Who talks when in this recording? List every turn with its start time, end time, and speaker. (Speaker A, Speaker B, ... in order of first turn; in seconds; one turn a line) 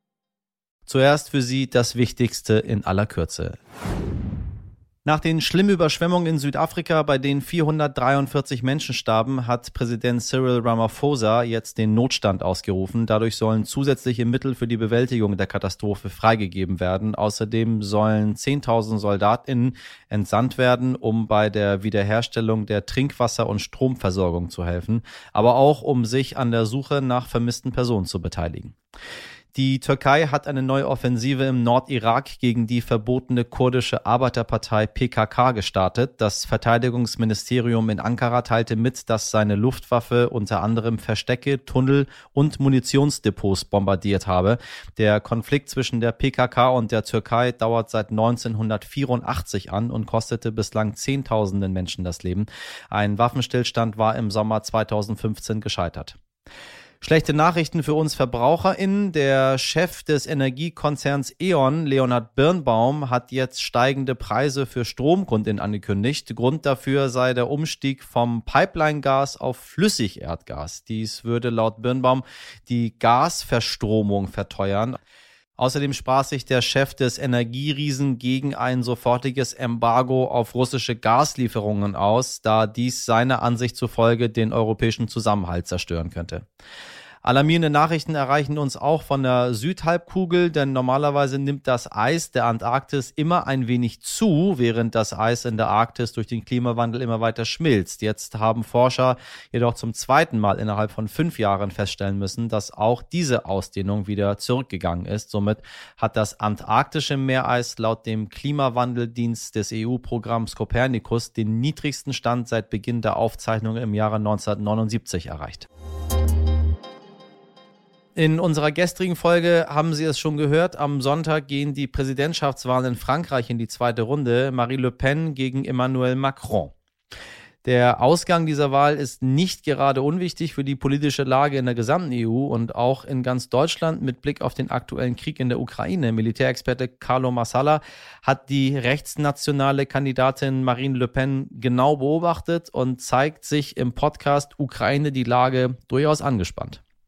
Speaker A: 0.8-3.6
Speaker A: 5.0-28.7
Speaker A: 29.5-56.1
Speaker A: 57.0-75.0
Speaker A: 75.6-86.5
Speaker A: 87.2-115.7
Speaker A: 118.1-126.7
Speaker A: 127.6-146.8